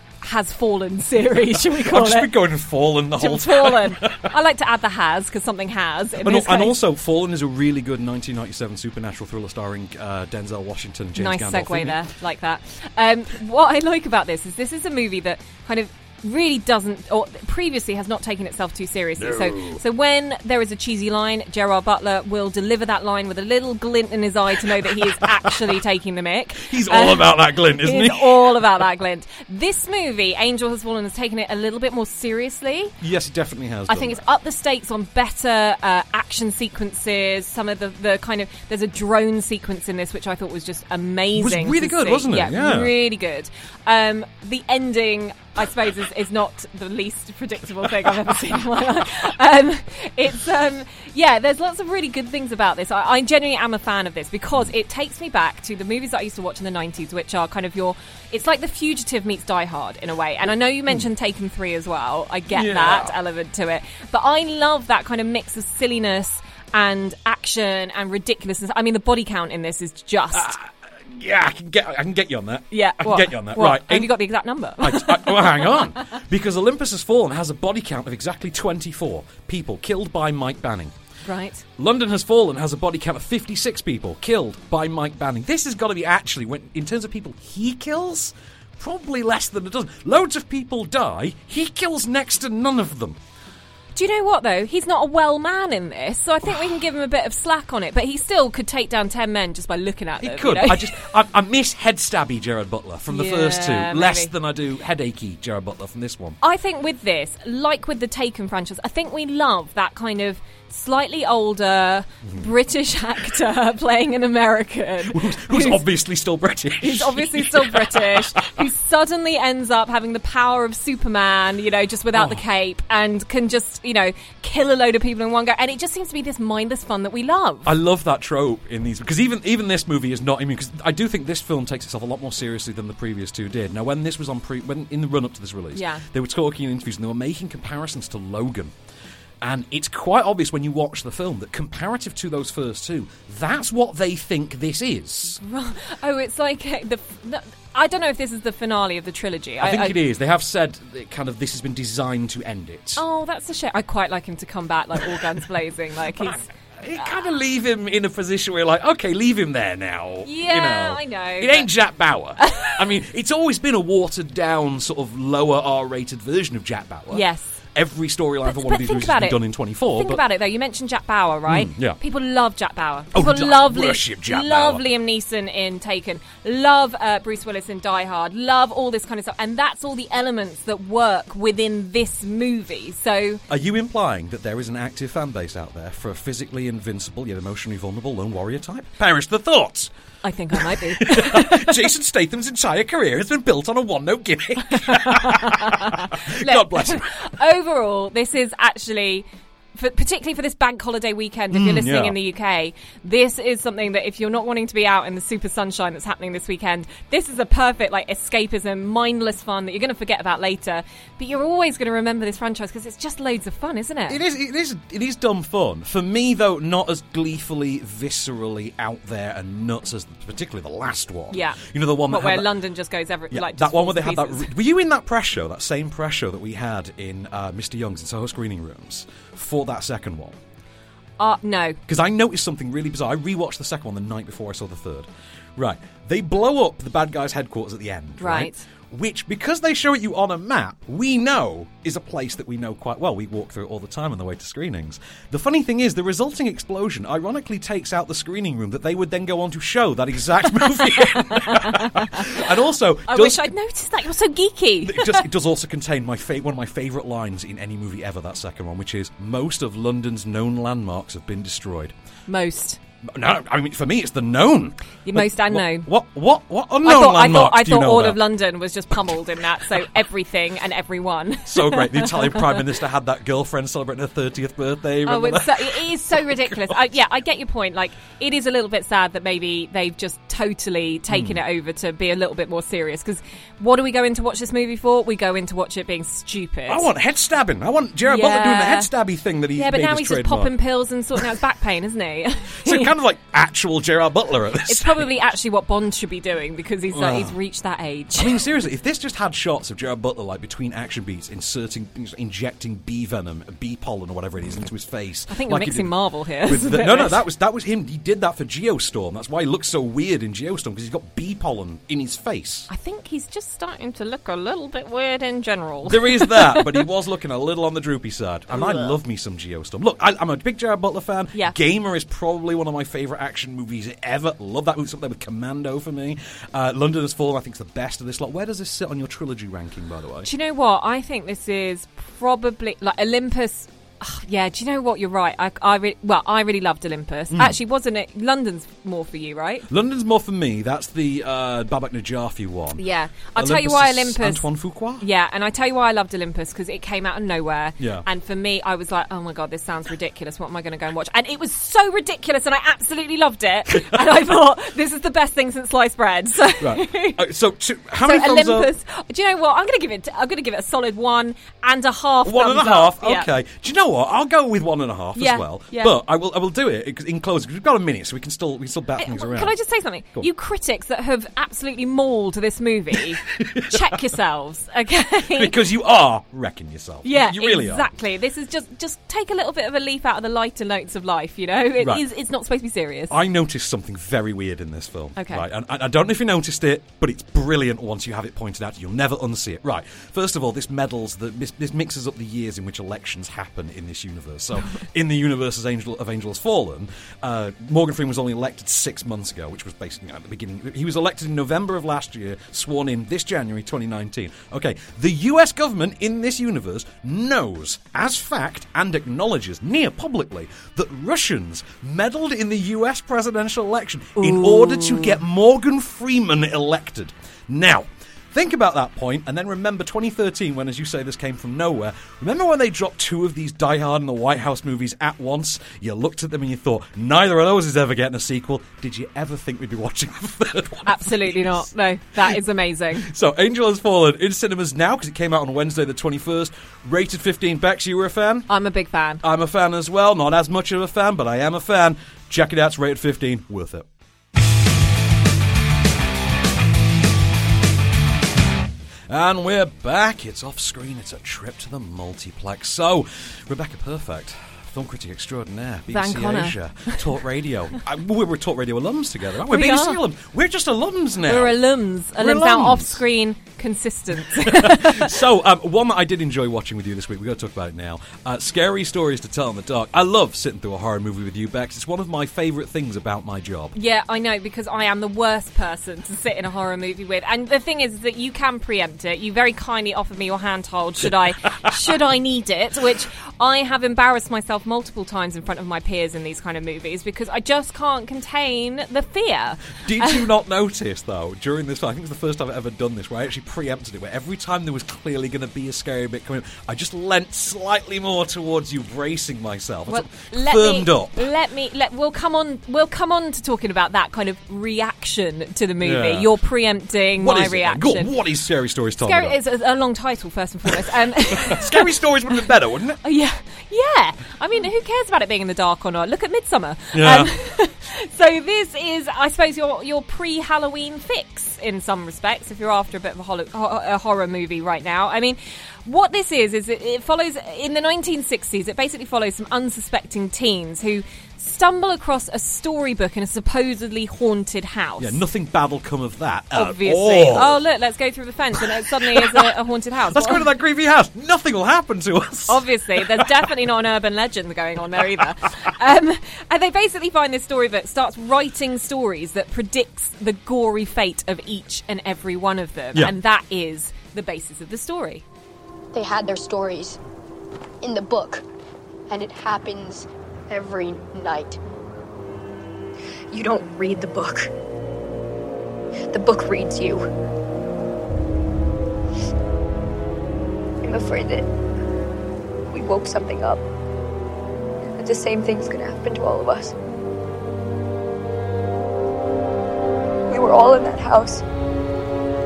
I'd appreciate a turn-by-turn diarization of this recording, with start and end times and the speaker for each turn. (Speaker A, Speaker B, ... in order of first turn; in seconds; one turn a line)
Speaker A: 0.2-2.4
Speaker B: 1.4-4.3
Speaker A: 3.2-6.8
Speaker B: 6.2-12.0
Speaker A: 11.2-33.0
Speaker B: 19.2-19.8
Speaker B: 25.2-25.6
Speaker B: 26.6-28.6
Speaker B: 33.0-34.2
Speaker A: 33.9-70.5
Speaker B: 41.4-42.9
Speaker B: 62.5-63.1
Speaker B: 70.3-74.2
Speaker A: 72.7-75.9
Speaker B: 74.8-80.9
Speaker A: 81.2-81.7
Speaker B: 81.8-93.2
Speaker A: 94.0-101.1
Speaker B: 100.2-106.4
Speaker A: 103.1-104.3
Speaker A: 106.4-115.8
Speaker B: 112.2-112.5
Speaker B: 115.1-118.7
Speaker A: 116.8-127.7
Speaker B: 122.1-122.4
Speaker B: 127.7-138.7
Speaker A: 135.7-136.1
Speaker B: 139.4-145.4
Speaker A: 145.4-150.0
Speaker B: 149.6-153.0
Speaker A: 153.0-156.4
Speaker B: 156.2-170.2
Speaker A: 160.2-161.7
Speaker A: 162.4-162.7
Speaker A: 167.1-167.6
Speaker A: 168.4-183.4
Speaker B: 171.5-172.0
Speaker B: 173.1-174.8
Speaker B: 183.5-189.9
Speaker A: 190.2-191.9
Speaker B: 190.7-197.2
Speaker A: 194.7-214.2
Speaker B: 201.5-202.2
Speaker B: 214.1-222.5
Speaker A: 221.3-224.5
Speaker B: 223.3-230.4
Speaker A: 231.2-231.8
Speaker B: 231.9-253.5
Speaker A: 238.2-238.6
Speaker A: 250.7-252.4
Speaker A: 253.1-255.3
Speaker B: 254.8-261.9
Speaker A: 262.3-262.8
Speaker B: 263.1-268.2
Speaker A: 265.1-265.9
Speaker A: 266.8-272.7
Speaker B: 271.5-276.8
Speaker A: 275.1-286.9
Speaker B: 281.1-281.4
Speaker B: 286.7-290.5
Speaker A: 288.0-288.9
Speaker A: 289.6-292.9
Speaker B: 292.6-295.1
Speaker A: 294.7-298.4
Speaker B: 296.9-297.4
Speaker B: 298.2-312.7
Speaker A: 305.3-307.2
Speaker A: 312.7-316.9
Speaker B: 315.9-330.3
Speaker A: 318.5-319.0
Speaker A: 330.2-339.7
Speaker B: 337.3-337.6
Speaker B: 339.7-342.8
Speaker A: 342.8-344.5
Speaker B: 343.4-345.1
Speaker A: 345.0-357.2
Speaker B: 347.8-348.1
Speaker B: 353.7-354.0
Speaker B: 356.6-358.7
Speaker A: 358.0-363.3
Speaker B: 362.2-369.5
Speaker A: 365.2-365.9
Speaker A: 369.0-375.6
Speaker B: 373.4-373.9
Speaker B: 375.3-377.9
Speaker A: 377.0-383.1
Speaker B: 383.1-431.7
Speaker A: 385.2-385.4
Speaker A: 414.2-415.2
Speaker A: 430.9-433.1
Speaker B: 433.0-438.5
Speaker A: 438.5-439.2
Speaker B: 439.2-443.9
Speaker B: 449.1-461.6
Speaker A: 455.9-457.1
Speaker A: 459.4-460.0
Speaker A: 461.2-465.2
Speaker B: 462.2-463.0
Speaker B: 464.4-473.8
Speaker A: 473.8-490.3
Speaker B: 489.8-501.3
Speaker A: 499.9-508.1
Speaker B: 505.8-506.3
Speaker B: 507.2-509.4
Speaker A: 509.0-512.5
Speaker B: 511.4-513.0
Speaker A: 513.0-535.2
Speaker B: 516.9-517.3
Speaker B: 535.0-537.6
Speaker A: 536.5-540.5
Speaker B: 538.9-539.5
Speaker B: 540.1-543.3
Speaker A: 542.5-555.2
Speaker C: 555.9-557.0
Speaker C: 557.8-558.4
Speaker C: 559.1-561.6
Speaker C: 563.3-564.5
Speaker C: 566.1-567.0
Speaker C: 570.8-571.5
Speaker C: 572.7-573.6
Speaker C: 575.0-576.7
Speaker C: 580.3-581.4